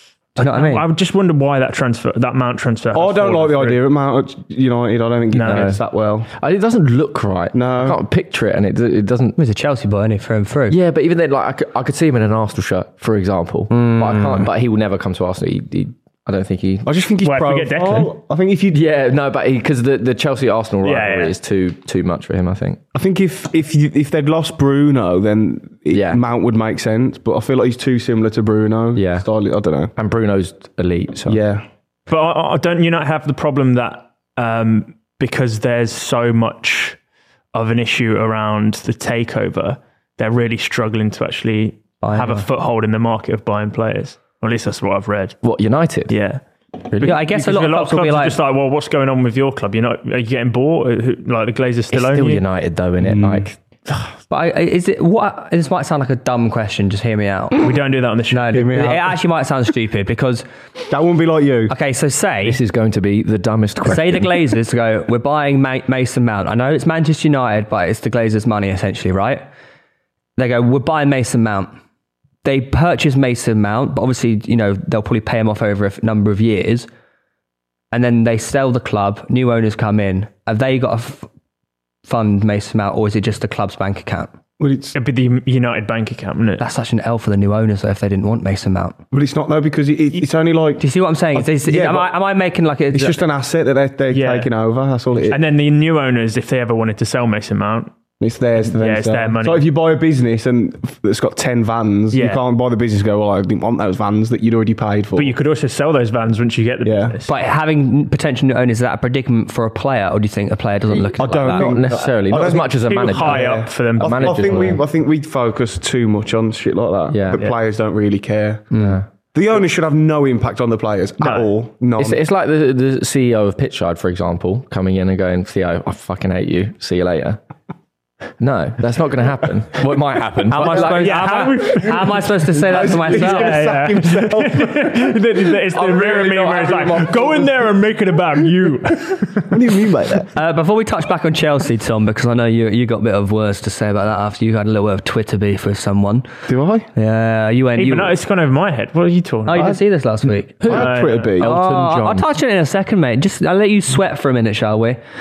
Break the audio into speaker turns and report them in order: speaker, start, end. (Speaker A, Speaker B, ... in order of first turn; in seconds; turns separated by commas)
Speaker A: 0.4-0.9, Speaker B: 0.4-3.8, Speaker C: 2.9-6.3, Speaker B: 5.3-5.7, Speaker D: 5.5-5.8, Speaker D: 6.4-9.4, Speaker C: 7.5-8.0, Speaker A: 9.4-10.8, Speaker D: 10.7-16.9, Speaker A: 13.7-14.5, Speaker C: 16.9-18.8, Speaker B: 17.2-18.1, Speaker D: 18.7-22.8, Speaker B: 20.8-21.3, Speaker C: 22.9-29.9, Speaker D: 25.9-26.2, Speaker D: 28.9-29.3, Speaker D: 30.0-31.4, Speaker C: 31.3-31.6, Speaker B: 32.1-37.0, Speaker B: 37.5-45.4, Speaker A: 42.0-42.5, Speaker D: 45.4-46.1, Speaker B: 46.1-52.4, Speaker A: 47.0-48.4, Speaker D: 51.9-54.1, Speaker C: 53.0-53.5, Speaker A: 54.3-57.7, Speaker B: 57.6-58.7, Speaker A: 58.3-60.5, Speaker C: 58.5-59.2, Speaker C: 60.9-61.8, Speaker A: 61.7-62.6, Speaker D: 62.4-64.3, Speaker A: 63.8-69.4, Speaker A: 70.4-71.7, Speaker A: 72.4-76.9, Speaker A: 77.9-81.3, Speaker A: 82.1-84.3, Speaker C: 84.6-85.0, Speaker B: 84.9-86.6, Speaker A: 86.6-89.0, Speaker C: 89.1-92.1, Speaker A: 90.8-93.2, Speaker C: 92.9-95.4, Speaker B: 94.1-94.5, Speaker B: 95.3-97.9, Speaker C: 98.2-105.3, Speaker B: 98.6-99.7, Speaker B: 102.1-102.4, Speaker B: 105.2-107.3, Speaker C: 106.8-107.2, Speaker A: 107.3-111.8, Speaker D: 111.0-114.8, Speaker C: 111.2-122.2, Speaker B: 112.8-114.8, Speaker D: 117.1-117.4, Speaker D: 118.8-119.1, Speaker B: 121.2-121.5, Speaker D: 122.0-127.4, Speaker D: 128.4-131.2, Speaker A: 130.5-133.7, Speaker B: 130.6-139.6, Speaker C: 132.5-137.6, Speaker C: 139.5-140.3, Speaker A: 140.3-146.3, Speaker C: 146.5-146.9, Speaker A: 146.9-148.2, Speaker B: 147.8-149.8, Speaker A: 149.5-155.0, Speaker C: 149.5-149.8, Speaker C: 150.7-151.5, Speaker B: 150.7-151.4, Speaker D: 151.4-152.3